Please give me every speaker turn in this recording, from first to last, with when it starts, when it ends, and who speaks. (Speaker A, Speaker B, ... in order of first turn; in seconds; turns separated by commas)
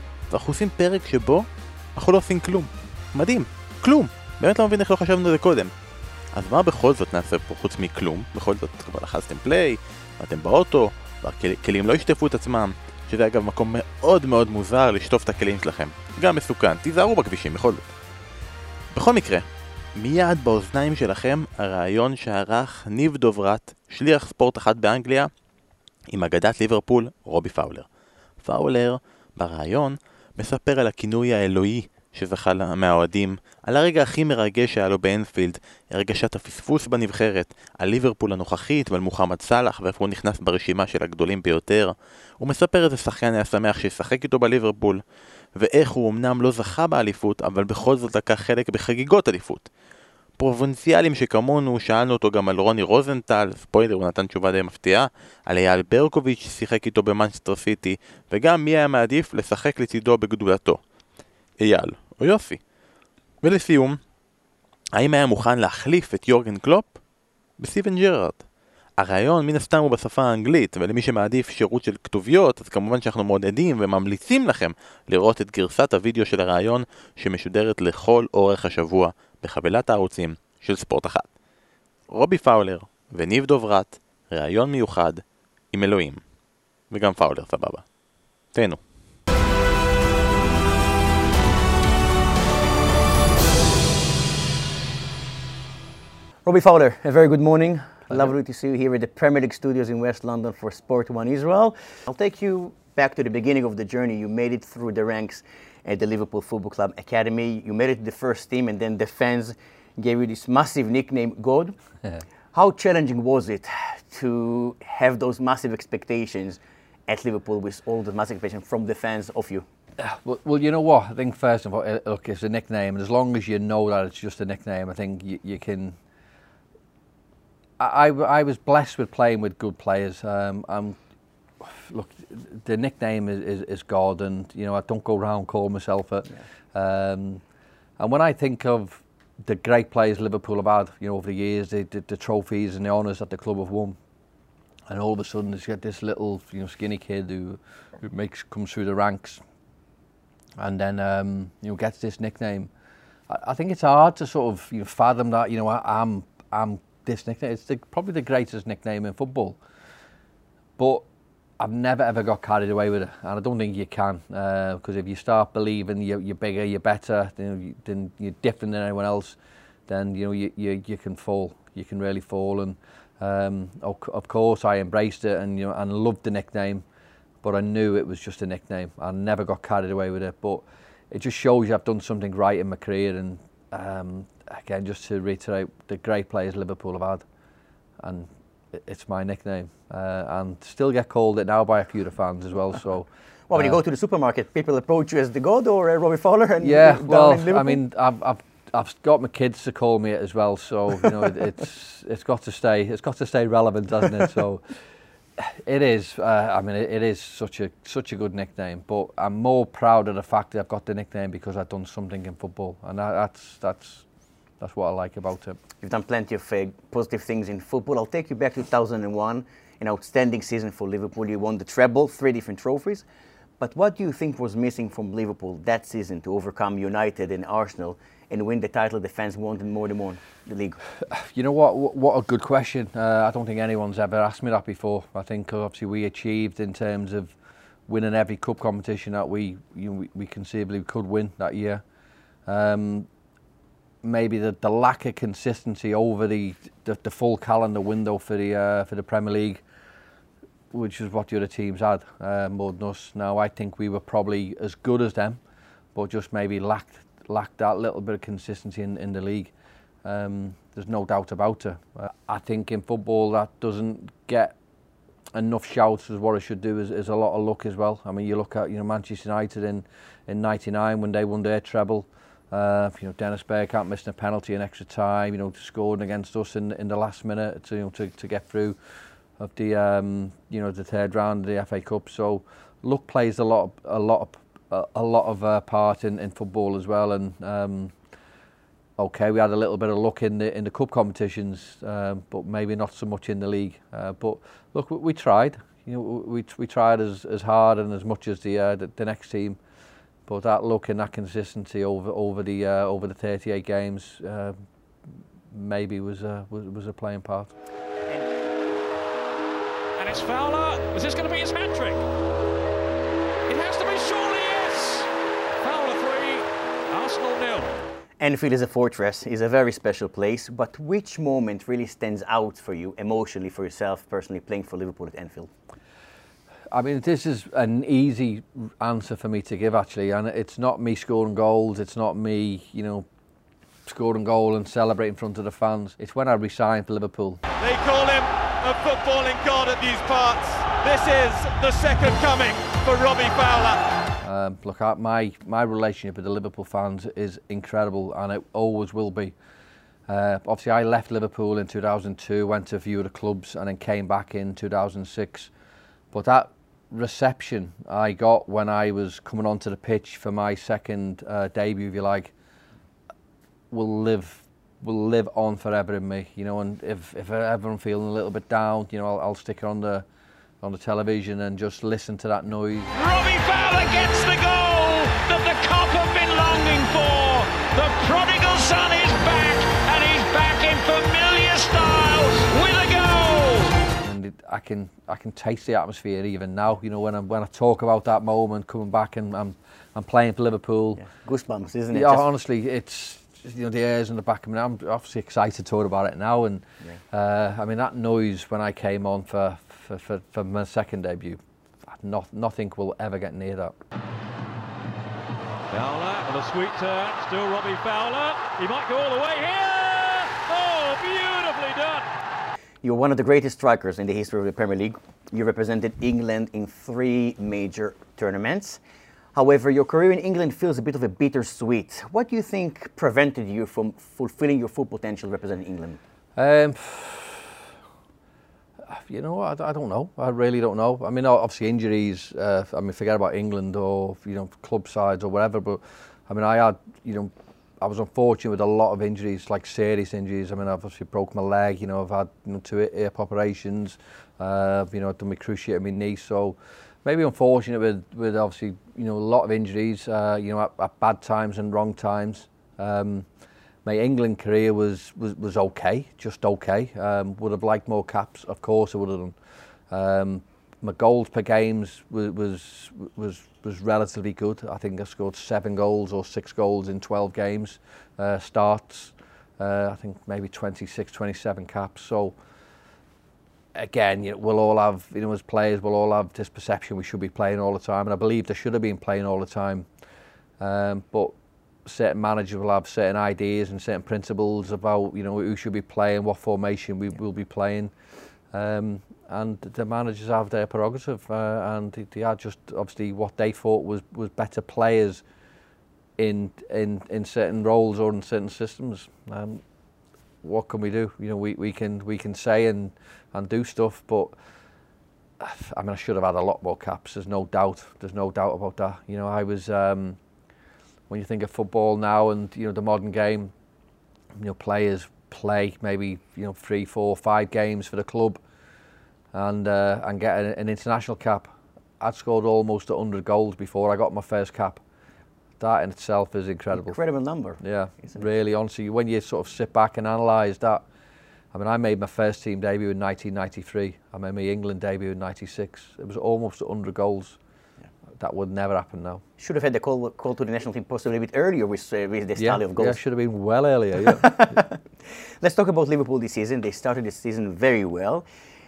Speaker A: 0.3-5.7, Speaker A: 6.3-17.9, Speaker A: 18.9-25.3, Speaker A: 26.1-27.9, Speaker A: 28.4-45.0, Speaker A: 45.5-49.7, Speaker A: 50.4-60.8, Speaker A: 61.6-62.6, Speaker A: 63.4-64.0, Speaker A: 64.9-67.0, Speaker A: 67.6-68.5, Speaker A: 69.0-81.3, Speaker A: 82.1-86.2, Speaker A: 86.9-88.0, Speaker A: 88.5-88.8, Speaker B: 96.4-111.8, Speaker B: 112.5-119.7, Speaker C: 120.0-126.0, Speaker C: 127.8-131.0, Speaker C: 131.6-137.4, Speaker C: 138.0-144.0, Speaker C: 144.9-149.4, Speaker C: 150.6-152.7, Speaker C: 153.3-159.6, Speaker C: 160.8-161.1, Speaker C: 161.6-176.8, Speaker C: 177.4-187.2, Speaker C: 188.0-193.8, Speaker B: 193.5-197.8, Speaker C: 196.6-204.6, Speaker C: 205.4-214.0, Speaker C: 214.6-215.6, Speaker B: 215.8-223.0, Speaker B: 223.6-230.8, Speaker C: 231.1-237.3, Speaker C: 237.9-241.8, Speaker C: 242.4-243.1, Speaker C: 244.0-249.6, Speaker C: 250.7-255.4, Speaker C: 255.9-259.5, Speaker C: 260.0-264.6, Speaker C: 265.3-278.8, Speaker C: 279.4-287.9, Speaker C: 289.0-299.6, Speaker C: 300.2-304.6, Speaker C: 305.5-307.5, Speaker D: 310.0-312.0, Speaker D: 313.5-315.1, Speaker D: 315.6-317.8, Speaker B: 318.2-325.5, Speaker C: 326.7-333.1, Speaker C: 333.9-337.4, Speaker E: 337.6-343.8, Speaker C: 344.2-349.3, Speaker C: 350.1-355.5, Speaker C: 356.1-362.3, Speaker C: 363.7-370.1, Speaker C: 370.6-372.9, Speaker D: 372.9-383.7, Speaker C: 384.0-391.0, Speaker B: 391.0-392.3, Speaker C: 391.9-403.8, Speaker D: 405.7-412.1, Speaker B: 412.8-418.8, Speaker B: 419.3-426.0, Speaker C: 426.4-427.6, Speaker C: 428.9-453.2, Speaker C: 453.8-459.4, Speaker C: 459.9-472.3, Speaker C: 473.7-479.9, Speaker C: 480.6-481.3, Speaker C: 481.8-487.9, Speaker C: 488.5-495.2, Speaker C: 496.2-499.6, Speaker C: 500.4-504.3, Speaker C: 505.4-510.2, Speaker C: 511.1-513.5, Speaker C: 514.4-518.4, Speaker C: 519.3-524.8, Speaker C: 525.6-527.0, Speaker B: 526.7-528.2, Speaker C: 527.6-530.9, Speaker C: 531.5-537.4, Speaker C: 538.1-539.2, Speaker B: 539.4-543.0, Speaker C: 542.4-544.6, Speaker B: 544.2-548.2